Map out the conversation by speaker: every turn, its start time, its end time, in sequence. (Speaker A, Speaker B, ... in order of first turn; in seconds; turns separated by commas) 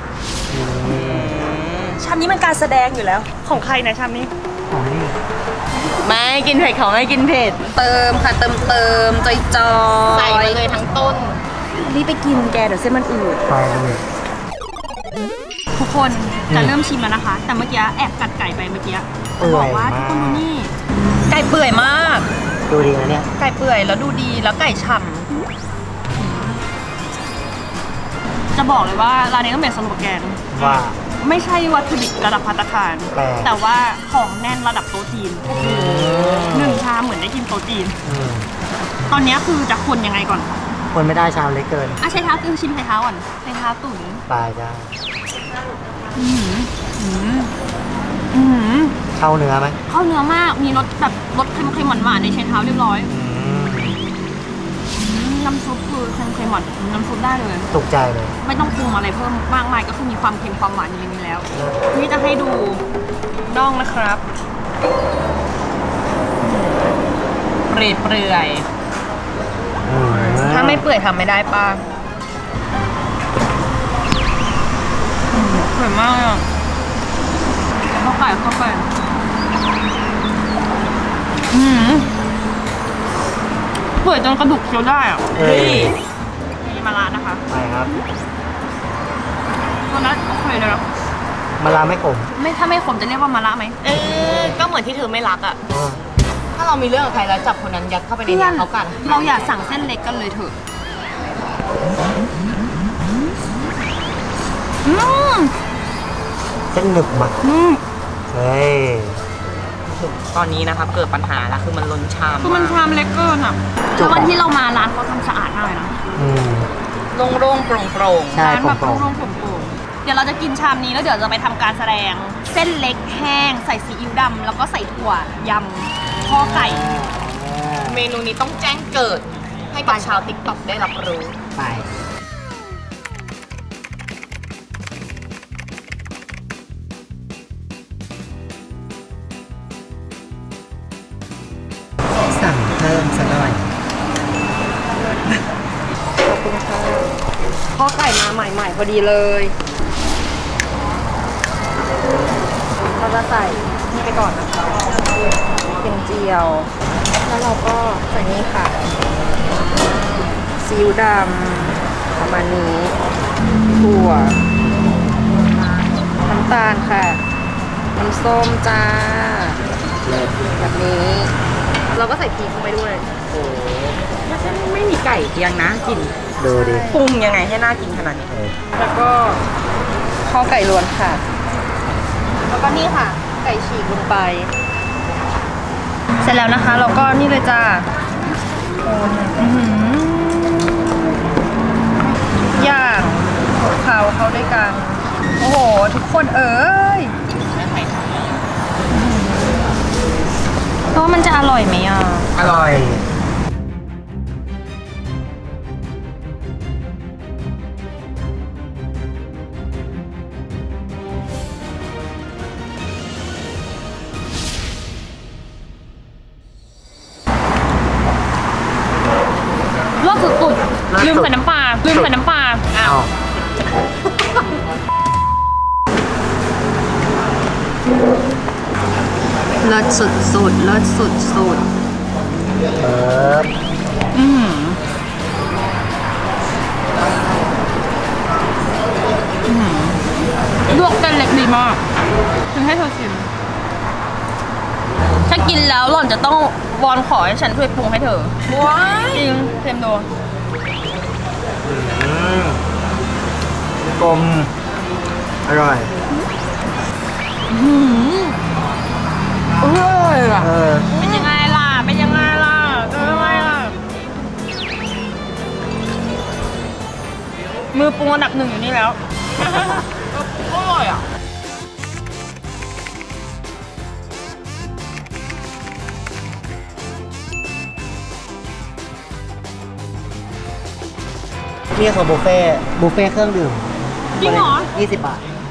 Speaker A: 0.5-1.4, Speaker B: 0.8-2.0, Speaker C: 2.0-4.3, Speaker A: 4.7-5.2, Speaker B: 6.0-7.6, Speaker C: 7.7-10.6, Speaker B: 10.1-11.4, Speaker C: 11.7-13.4, Speaker A: 13.5-14.0, Speaker C: 15.7-20.7, Speaker A: 19.4-20.5, Speaker C: 21.3-22.3, Speaker A: 22.7-23.3, Speaker C: 23.4-25.3, Speaker C: 26.2-26.6, Speaker C: 28.5-38.0, Speaker A: 30.5-31.0, Speaker A: 33.1-33.5, Speaker A: 35.5-36.8, Speaker A: 38.0-38.5, Speaker C: 39.1-40.6, Speaker A: 40.9-42.0, Speaker C: 42.0-44.2, Speaker A: 44.3-44.9, Speaker C: 46.1-47.5, Speaker C: 48.3-48.9, Speaker A: 49.1-49.8, Speaker C: 49.9-53.1, Speaker A: 53.1-54.0, Speaker C: 54.9-57.7, Speaker A: 57.7-58.3, Speaker C: 58.4-62.8, Speaker A: 61.5-61.8, Speaker C: 63.5-64.2, Speaker C: 66.4-66.9, Speaker B: 67.7-68.7, Speaker A: 69.8-70.8, Speaker C: 70.1-71.8, Speaker C: 75.3-76.4, Speaker C: 77.9-78.8, Speaker C: 81.5-82.1, Speaker C: 84.0-86.0, Speaker A: 85.3-86.0, Speaker C: 86.6-87.4, Speaker A: 87.5-87.9, Speaker C: 89.9-90.8, Speaker A: 91.6-92.3, Speaker C: 92.3-93.8, Speaker B: 93.8-95.6, Speaker A: 94.1-94.6, Speaker A: 95.7-96.0, Speaker B: 96.5-99.8, Speaker C: 98.2-100.5, Speaker C: 104.8-105.5, Speaker A: 106.7-107.3, Speaker C: 107.4-107.8, Speaker A: 108.3-109.2, Speaker B: 109.9-112.8, Speaker C: 112.4-116.0, Speaker A: 114.0-114.3, Speaker A: 116.1-116.7, Speaker B: 117.1-118.4, Speaker A: 118.3-119.1, Speaker C: 118.4-126.9, Speaker A: 126.2-128.1, Speaker B: 127.8-131.3, Speaker A: 131.5-131.9, Speaker A: 142.1-143.7, Speaker C: 146.2-147.1, Speaker C: 147.7-149.5, Speaker C: 152.8-154.9, Speaker C: 155.8-156.7, Speaker C: 157.2-158.8, Speaker C: 160.4-162.9, Speaker C: 163.8-164.4, Speaker C: 166.2-167.2, Speaker C: 167.9-169.6, Speaker A: 170.1-170.3, Speaker C: 170.6-171.3, Speaker C: 171.9-173.1, Speaker B: 173.4-173.7, Speaker B: 174.2-176.2, Speaker A: 176.4-176.9, Speaker C: 176.4-177.1, Speaker B: 176.9-178.3, Speaker A: 178.3-178.6, Speaker C: 178.8-179.4, Speaker C: 180.2-181.2, Speaker C: 182.5-184.5, Speaker C: 186.2-187.9, Speaker C: 188.8-190.7, Speaker C: 192.5-197.2, Speaker B: 197.4-198.4, Speaker C: 198.9-199.5, Speaker C: 200.9-202.3, Speaker B: 202.3-202.8, Speaker A: 202.4-203.0, Speaker C: 220.0-222.7, Speaker A: 220.9-222.1, Speaker B: 222.7-223.0, Speaker A: 222.8-223.1, Speaker C: 229.6-231.6, Speaker A: 232.8-233.5, Speaker C: 234.1-234.8, Speaker C: 239.4-240.0, Speaker C: 240.7-241.8, Speaker C: 242.5-243.3, Speaker C: 245.2-250.1, Speaker A: 251.6-252.6, Speaker A: 253.9-254.5, Speaker A: 255.4-255.9, Speaker C: 257.5-258.4, Speaker B: 259.6-260.3, Speaker A: 260.4-260.9, Speaker C: 260.9-263.7, Speaker C: 267.7-269.8, Speaker B: 269.6-271.0, Speaker A: 281.7-285.2, Speaker C: 284.2-284.7